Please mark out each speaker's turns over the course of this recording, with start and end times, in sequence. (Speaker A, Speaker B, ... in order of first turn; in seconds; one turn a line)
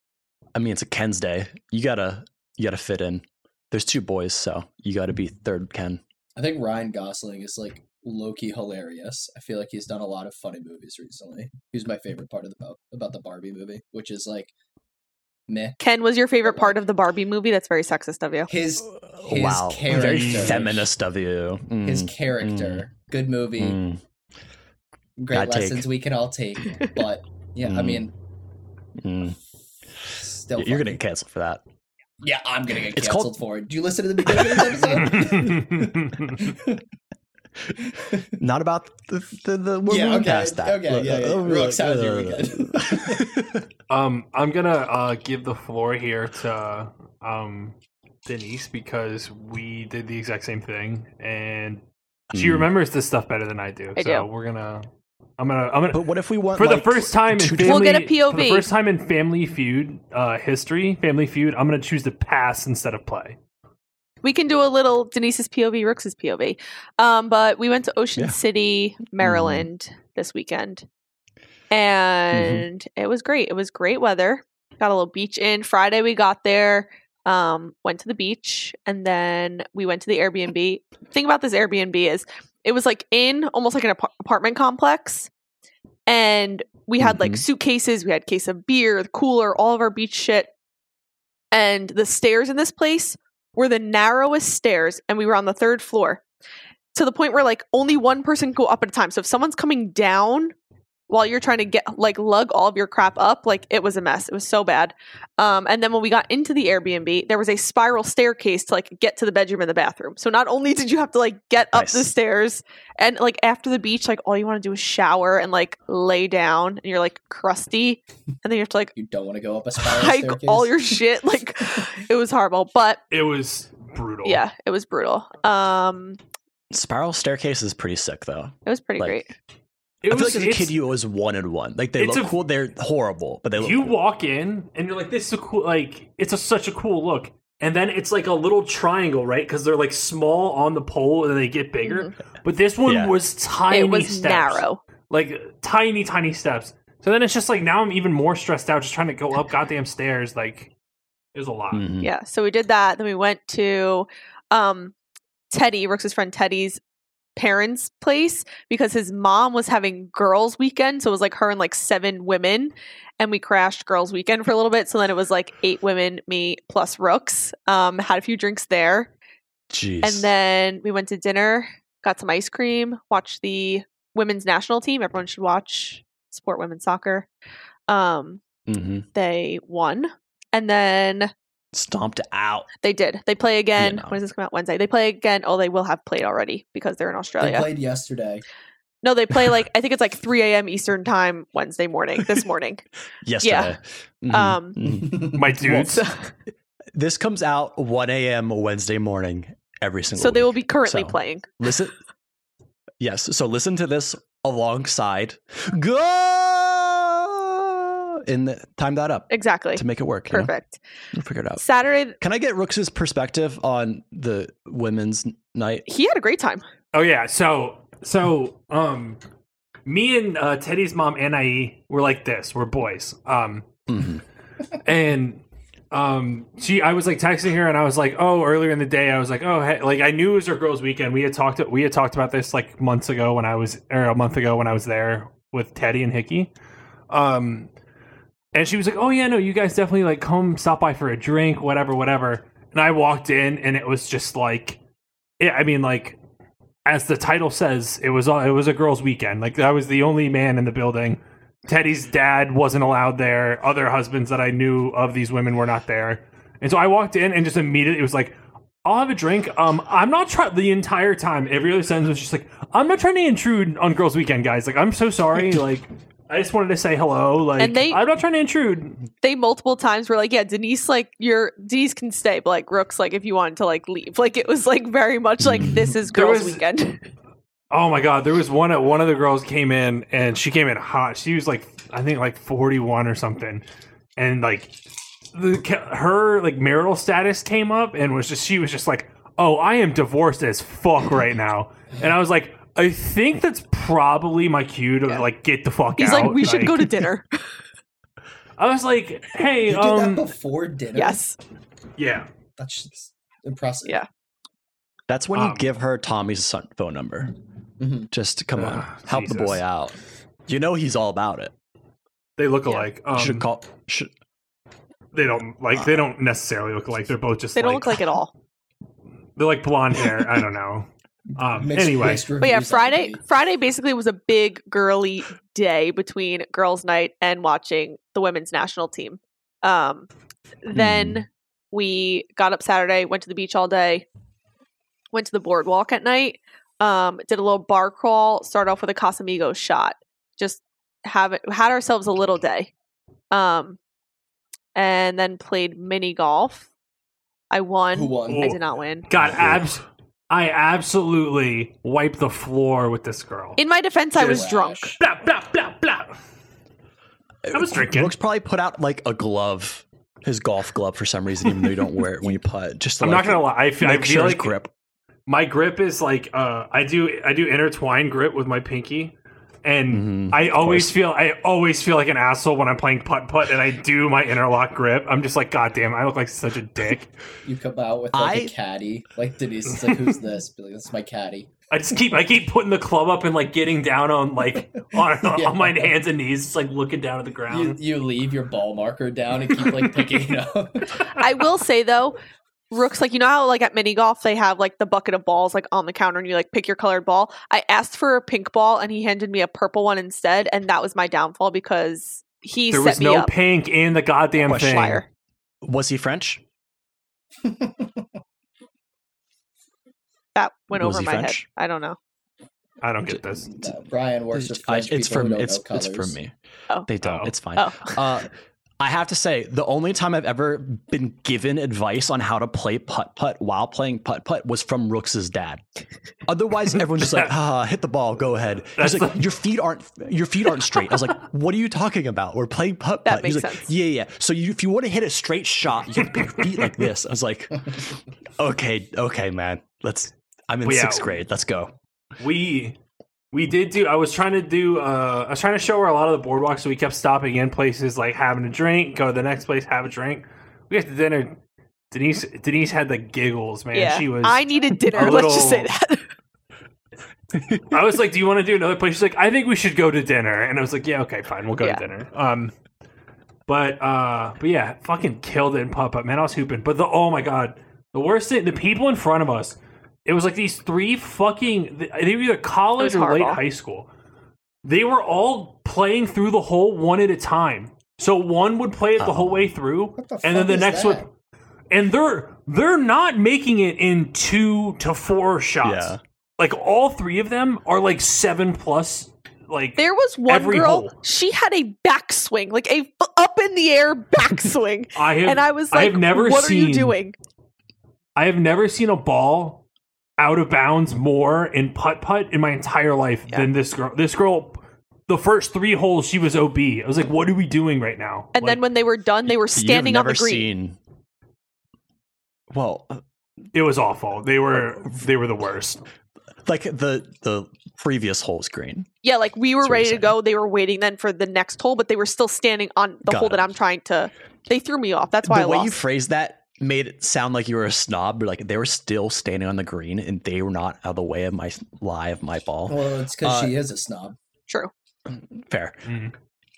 Speaker A: 0.6-6.0
Speaker B: 6.4-14.5
Speaker B: 15.5-15.8
Speaker C: 15.8-18.5
Speaker B: 16.4-16.8
Speaker B: 18.5-20.9
Speaker A: 18.8-22.9
Speaker B: 21.8-23.8
Speaker A: 23.6-24.0
Speaker B: 25.2-28.1
Speaker A: 25.3-25.9
Speaker A: 27.6-28.1
Speaker A: 29.0-29.4
Speaker B: 30.1-31.0
Speaker A: 30.6-31.6
Speaker B: 32.2-36.8
Speaker A: 32.9-33.4
Speaker A: 34.3-34.8
Speaker D: 35.2-36.3
Speaker A: 38.4-43.7
Speaker B: 39.9-43.3
Speaker D: 43.9-47.8
Speaker D: 48.3-51.8
Speaker A: 52.3-52.7
Speaker D: 52.3-54.9
Speaker C: 54.0-54.3
Speaker D: 55.4-63.4
Speaker A: 55.9-58.0
Speaker C: 57.6-58.7
Speaker C: 64.2-70.9
Speaker A: 69.2-69.7
Speaker C: 71.7-85.3
Speaker A: 72.3-72.7
Speaker C: 86.1-90.5
Speaker A: 87.0-87.5
Speaker C: 91.5-96.2
Speaker C: 96.9-100.5
Speaker C: 101.1-118.9
Speaker A: 111.7-112.1
Speaker B: 119.0-121.0
Speaker C: 119.9-123.0
Speaker D: 123.1-124.4
Speaker C: 124.2-126.2
Speaker A: 126.7-129.2
Speaker C: 128.7-129.3
Speaker D: 130.0-130.8
Speaker A: 130.1-134.0
Speaker D: 132.0-132.3
Speaker D: 133.6-150.7
Speaker C: 141.8-142.1
Speaker A: 142.8-143.2
Speaker C: 143.7-144.8
Speaker D: 151.3-151.9
Speaker A: 151.7-152.1
Speaker C: 152.0-154.9
Speaker C: 155.5-156.8
Speaker C: 157.4-169.1
Speaker A: 169.7-170.3
Speaker C: 170.0-177.3
Speaker C: 177.9-178.4
Speaker A: 178.7-179.1
Speaker C: 179.1-181.3
Speaker A: 181.7-182.7
Speaker C: 182.8-187.7
Speaker A: 183.8-184.2
Speaker B: 187.4-188.4
Speaker C: 189.0-192.8
Speaker A: 193.2-196.0
Speaker C: 193.4-193.8
Speaker C: 194.3-194.8
Speaker B: 194.8-195.4
Speaker D: 195.3-196.1
Speaker C: 195.8-196.3
Speaker A: 196.9-201.9
Speaker C: 200.2-201.5
Speaker A: 203.0-210.5
Speaker C: 209.3-210.8
Speaker A: 211.1-211.6
Speaker C: 211.6-212.2
Speaker A: 212.2-215.9
Speaker C: 215.9-216.7
Speaker D: 216.9-219.2
Speaker D: 219.9-223.7
Speaker A: 223.9-224.2
Speaker D: 224.8-236.5
Speaker D: 237.1-237.7
Speaker D: 238.5-244.8
Speaker D: 245.4-246.2
Speaker D: 246.8-269.0
Speaker C: 267.6-268.0
Speaker C: 269.2-277.1
Speaker A: 275.4-275.8
Speaker D: 276.1-276.6
Speaker D: 277.7-283.6
Speaker D: 284.2-284.7
Speaker D: 285.3-297.1
Speaker C: 296.0-297.4
Speaker D: 298.6-300.3
Speaker B: 299.7-301.2
Speaker C: 300.9-301.4
Speaker D: 302.0-302.3
Speaker B: 302.6-304.0
Speaker A: 305.1-307.4
Speaker D: 305.3-305.7
Speaker B: 307.8-308.1
Speaker A: 308.1-311.5
Speaker D: 308.6-309.6
Speaker D: 312.4-313.5
Speaker A: 313.1-314.1
Speaker D: 315.1-318.1
Speaker A: 315.8-316.0
Speaker C: 317.6-318.3
Speaker D: 319.4-322.3
Speaker B: 321.5-323.2
Speaker C: 322.4-330.1
Speaker C: 330.6-334.1
Speaker A: 330.7-331.2
Speaker C: 335.1-342.7
Speaker C: 343.3-343.8
Speaker C: 344.8-346.7
Speaker C: 347.5-349.1
Speaker B: 347.9-348.5
Speaker D: 348.3-353.6
Speaker A: 349.2-349.7
Speaker C: 353.6-354.9
Speaker B: 354.1-354.9
Speaker D: 354.2-354.4
Speaker D: 355.0-356.1
Speaker A: 357.4-364.7
Speaker D: 357.5-358.1
Speaker D: 363.0-364.6
Speaker D: 365.3-377.1
Speaker A: 369.9-371.0
Speaker B: 377.4-381.5
Speaker A: 378.1-378.5
Speaker D: 381.7-387.8
Speaker B: 385.2-385.9
Speaker B: 387.5-391.1
Speaker D: 389.6-390.1
Speaker C: 391.1-392.2
Speaker C: 392.7-403.3
Speaker D: 402.7-405.0
Speaker A: 404.4-405.0
Speaker C: 404.6-405.1
Speaker A: 405.6-406.4
Speaker B: 407.4-408.0
Speaker C: 410.4-412.0
Speaker A: 410.7-411.5
Speaker D: 412.8-413.5
Speaker A: 413.1-413.7
Speaker B: 413.5-416.2
Speaker A: 414.3-416.3
Speaker A: 416.9-425.6
Speaker D: 417.0-417.3
Speaker C: 417.5-418.0
Speaker A: 426.3-441.7
Speaker D: 427.0-427.3
Speaker D: 428.8-429.3
Speaker C: 433.1-433.7
Speaker D: 440.6-441.1
Speaker D: 442.2-442.8
Speaker D: 443.3-451.4
Speaker D: 451.9-455.7
Speaker C: 453.7-456.1
Speaker D: 457.7-462.5
Speaker D: 463.5-473.9
Speaker C: 472.8-473.4
Speaker D: 474.6-481.1
Speaker A: 479.0-479.5
Speaker B: 480.0-481.1
Speaker D: 481.7-491.0
Speaker A: 485.6-486.0
Speaker C: 489.8-497.2
Speaker D: 494.9-497.0
Speaker D: 498.2-499.6
Speaker D: 500.2-508.6
Speaker C: 508.3-510.5
Speaker A: 509.3-510.8
Speaker A: 512.5-513.0
Speaker D: 513.5-515.8
Speaker A: 514.5-514.9
Speaker A: 516.5-518.9
Speaker C: 519.0-525.8
Speaker A: 519.6-520.1
Speaker A: 523.1-523.5
Speaker A: 525.2-533.6
Speaker B: 532.7-534.2
Speaker A: 535.1-535.8
Speaker D: 535.9-536.1